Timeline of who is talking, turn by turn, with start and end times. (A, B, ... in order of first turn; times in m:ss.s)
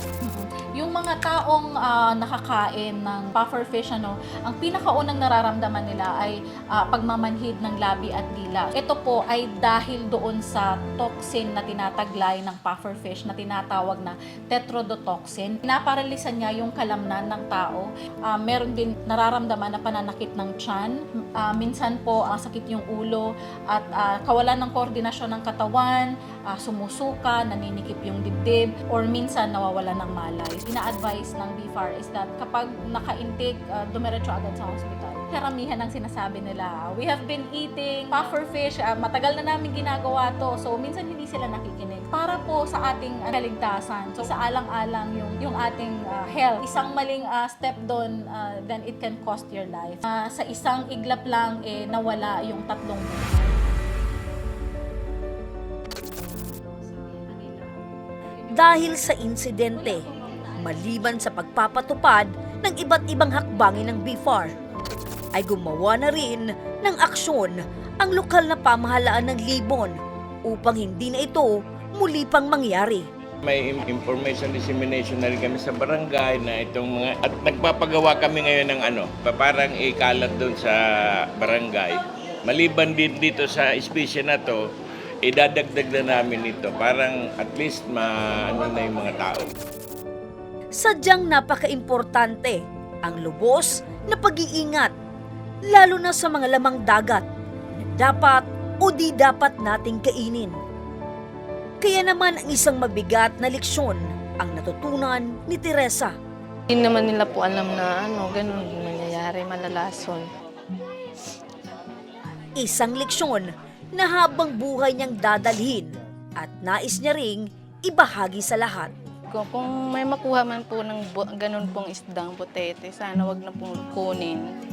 0:00.2-0:53.7 A
0:58.5-1:04.5 B
1:05.3-1:13.1 B
1:13.4-1:20.7 C
1:21.4-1:21.9 C
1:22.5-1:24.6 C
1:25.2-1:29.4 C
1:30.7-1:34.9 B
1:35.7-1:37.2 B
1:37.8-1:40.6 B
1:41.8-1:46.1 B
1:46.7-1:50.3 D
1:52.6-1:58.9 B
1:59.3-2:04.4 D